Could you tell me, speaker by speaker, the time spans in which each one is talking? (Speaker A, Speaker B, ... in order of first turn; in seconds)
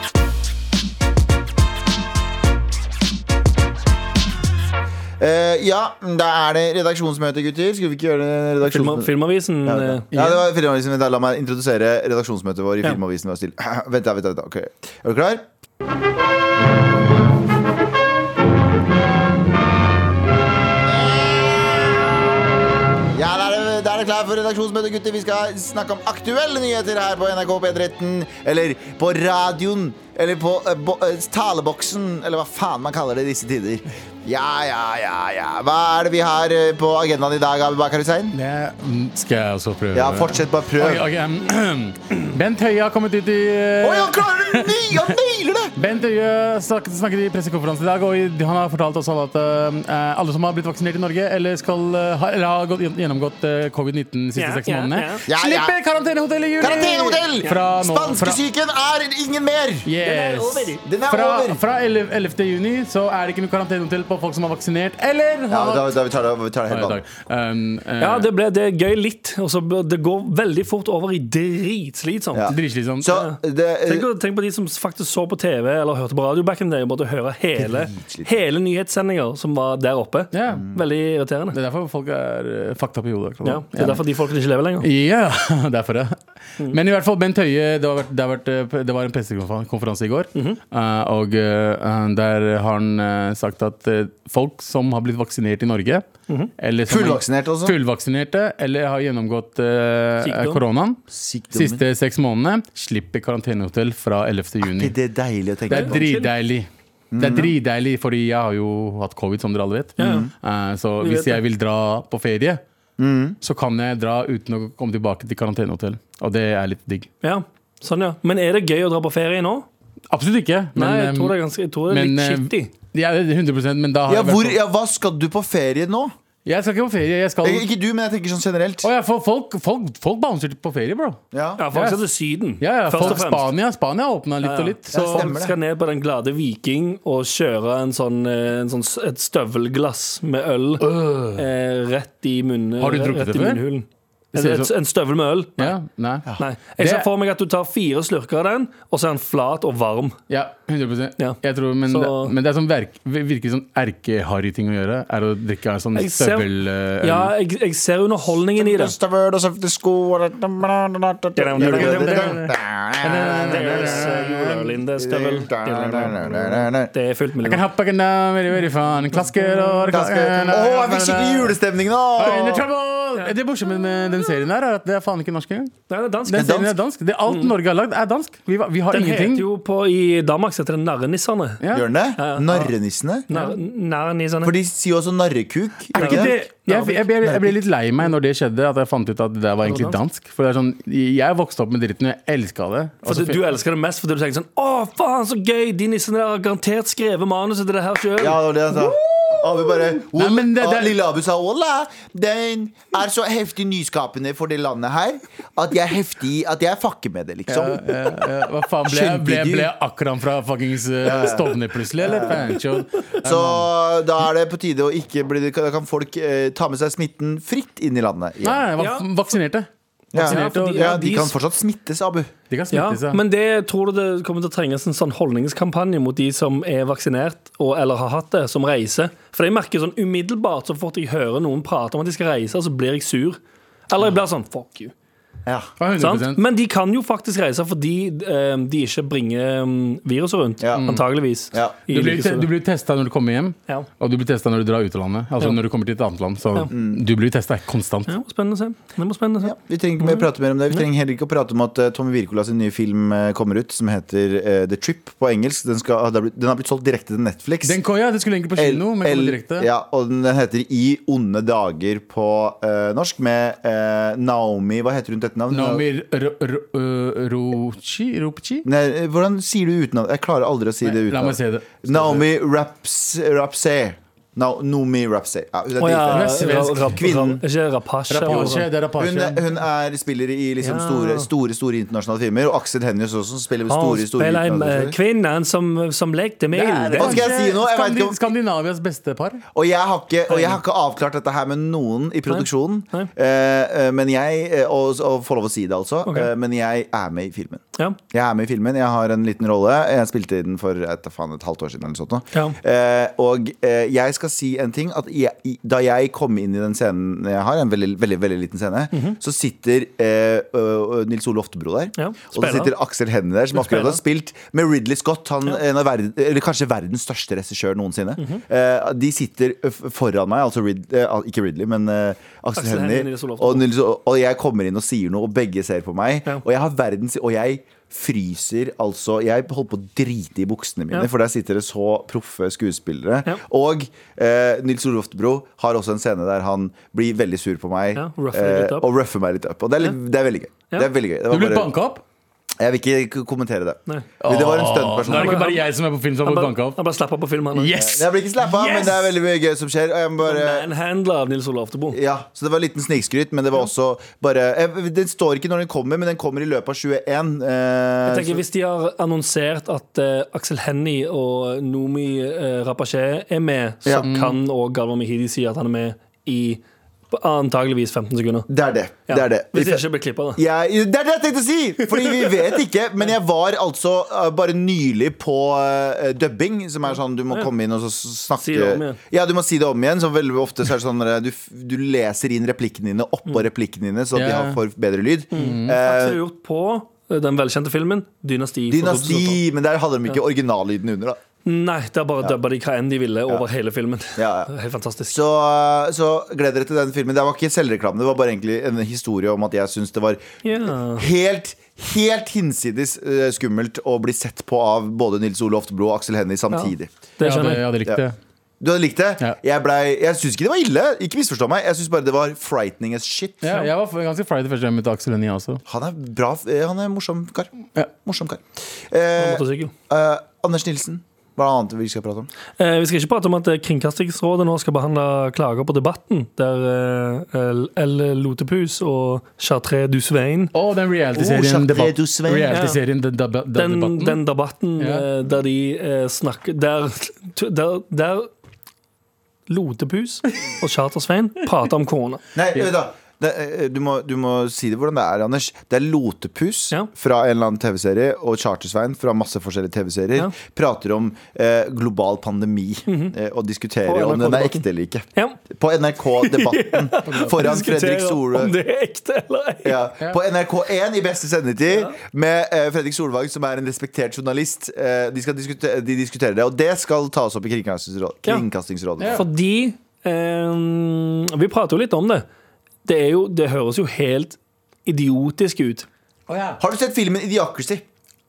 Speaker A: 5.2-9.1, 9.6-15.4, 20.8-22.2, 23.1-38.4, 39.9-41.1, 43.8-45.8, 55.3-55.7, 56.6-59.9, 60.8-61.6, 65.5-67.0, 72.3-74.0, 77.6-78.3, 80.5-80.8, 96.9-97.8, 101.1-101.8, 104.6-106.1, 107.1-107.5, 110.0-110.3, 113.0-113.4, 124.1-126.1, 127.4-128.9, 131.3-131.6, 134.9-135.6, 158.6-164.2, 165.0-166.9, 169.9-172.7, 176.3-176.7, 181.7-183.3, 184.4-186.3, 198.2-208.3, 208.8-209.7, 211.1-212.6, 213.2-218.6, 220.1-222.3, 240.6-240.9, 241.5-241.8, 246.7-247.0, 249.4-257.8, 258.5-265.8, 268.6-277.4, 278.3-284.9, 286.9-288.2, 289.5-341.7, 342.6-345.5, 347.8-350.7, 351.9-358.4, 368.5-369.8, 370.4-386.2, 388.7-391.2, 394.2-394.5, 395.1-400.2, 400.9-406.9, 408.6-413.6, 415.7-417.5, 418.0-422.3, 431.1-432.5, 442.3-458.5, 459.6-469.2, 476.6-477.8
Speaker B: 8.6-10.1, 54.4-55.2, 60.0-60.8, 68.0-72.5, 73.1-81.6, 83.4-84.9, 100.2-100.6, 105.7-106.3, 110.0-110.3, 111.0-111.4, 117.2-119.7, 120.8-122.7, 131.6-133.5, 134.4-145.7, 146.4-150.2, 151.2-152.3, 155.9-156.5, 157.0-158.9, 161.3-162.4, 163.0-167.6, 169.2-169.9, 175.9-176.6, 177.3-177.5, 178.9-181.6, 182.2-182.7, 183.3-184.5, 186.0-187.1, 189.6-190.0, 193.0-199.3, 218.8-219.1, 220.2-221.3, 222.7-234.9, 236.0-242.5, 248.1-250.8, 275.8-278.6, 280.6-281.3, 283.7-287.2, 290.3-290.6, 292.3-293.1, 296.0-296.3, 308.9-309.2, 312.0-312.7, 313.5-314.0, 322.5-323.7, 337.9-338.9, 345.1-345.6, 346.2-347.7, 350.2-352.0, 358.1-368.5, 369.1-370.4, 378.4-379.0, 385.3-389.4, 391.4-395.2, 400.4-401.1, 406.5-407.6, 419.2-419.7, 422.6-430.5, 432.5-432.8, 433.5-438.3, 439.5-442.2, 452.9-453.1, 453.8-455.4, 456.2-459.9, 469.1-472.2, 472.8-475.9
Speaker C: 10.1-10.4, 38.3-45.1, 45.8-58.4, 59.9-65.9, 66.7-68.3, 72.5-73.1, 80.3-80.7, 81.5-84.0, 84.8-96.0, 96.6-104.9, 105.7-112.6, 113.4-117.1, 120.1-121.3, 121.9-124.6, 126.4-127.7, 128.8-131.2, 131.7-132.0, 132.6-135.3, 140.8-141.4, 142.8-143.6, 144.3-144.7, 145.6-147.1, 150.3-157.3, 161.5-164.7, 167.4-171.6, 172.2-175.7, 176.3-179.4, 181.6-181.9, 185.9-193.4, 200.1-201.0, 207.5-213.7, 218.4-221.0, 222.5-223.2, 235.8-236.4, 241.9-248.1, 257.6-259.7, 265.5-268.6, 270.8-272.3, 276.1-277.0, 278.1-279.4, 286.5-289.4, 341.3-342.0, 344.2-346.8, 347.5-349.1, 364.0-364.4, 384.1-384.6, 385.3-385.8, 407.2-408.1, 413.4-415.6, 430.5-434.2, 434.8-435.0, 457.1-457.4, 469.0-469.2, 476.3-476.6